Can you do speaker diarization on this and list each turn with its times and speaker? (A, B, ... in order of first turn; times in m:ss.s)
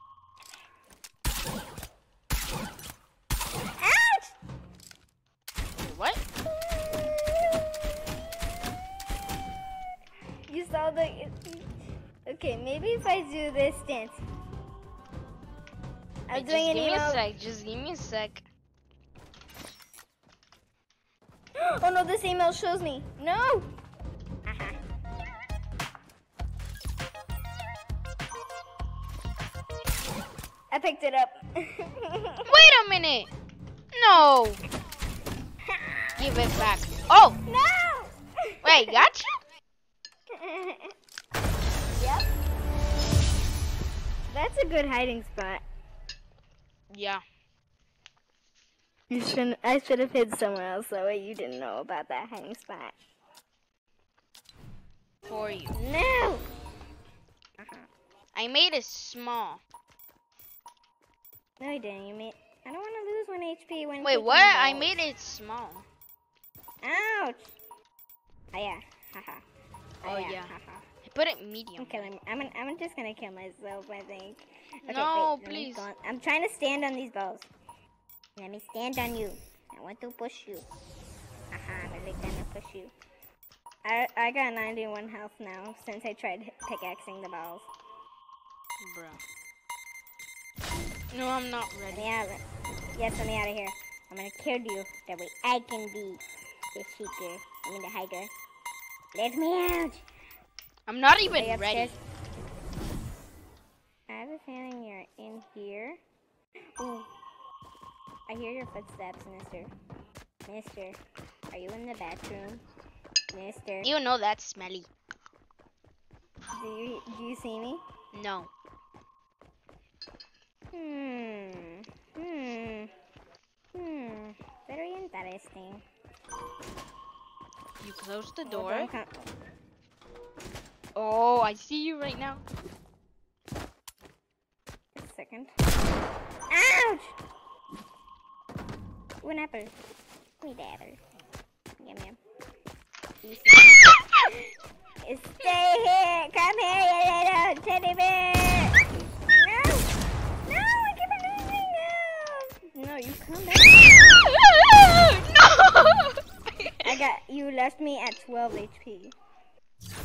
0:03.8-0:04.4 A
0:05.8-0:06.2 B
0:06.8-0:07.8 A
0:10.5-0:11.6 A
0:12.2-0:14.2 A
0:16.3-0:17.2 A
0:16.3-0:18.4 B
0:21.6-0:23.7 A
0:24.4-0:24.8 A
0:30.7-0:32.5 A
0:32.4-0:33.3 B
0:33.9-0:34.6 B
0:35.7-0:36.1 A
0:36.2-0:37.4 B
0:37.5-0:39.0 A
0:38.6-0:39.4 B
0:40.3-0:40.9 A
0:41.9-0:42.2 A
0:44.3-0:45.6 A
0:46.9-0:47.2 B
0:49.1-0:52.9 A
0:55.3-0:55.8 B
0:55.7-0:56.4 A
0:57.6-0:57.9 A
0:58.3-0:59.6 B
1:01.6-1:04.9 A
1:04.0-1:05.8 B
1:06.8-1:07.5 A
1:08.5-1:09.4 A
1:10.0-1:10.8 A
1:10.0-1:12.1 B
1:11.8-1:17.5 A
1:14.8-1:15.8 B
1:18.4-1:20.6 A
1:21.5-1:22.9 A
1:23.8-1:27.7 A
1:28.8-1:29.2 B
1:31.1-1:32.1 B
1:31.9-1:32.4 A
1:32.9-1:36.2 A
1:36.7-1:38.3 A
1:39.1-1:40.0 A
1:40.9-1:42.0 B
1:41.3-1:42.0 A
1:44.1-1:46.0 A
1:46.8-1:47.1 A
1:48.3-1:49.7 A
1:50.5-1:51.0 A
1:51.5-1:52.6 A
1:53.3-1:53.9 A
1:53.8-1:54.9 B
1:56.5-1:57.8 A
1:58.1-1:58.5 B
2:00.7-2:02.9 A
2:03.7-2:05.8 A
2:07.8-2:08.9 B
2:08.4-2:09.3 A
2:10.9-2:12.4 B
2:15.0-2:15.5 A
2:16.5-2:17.2 A
2:19.2-2:19.7 A
2:20.4-2:21.0 A
2:21.8-2:22.2 A
2:23.2-2:23.9 A
2:25.0-2:28.8 A
2:29.3-2:29.9 A
2:30.4-2:34.3 A
2:34.2-2:37.0 B
2:36.8-2:39.1 A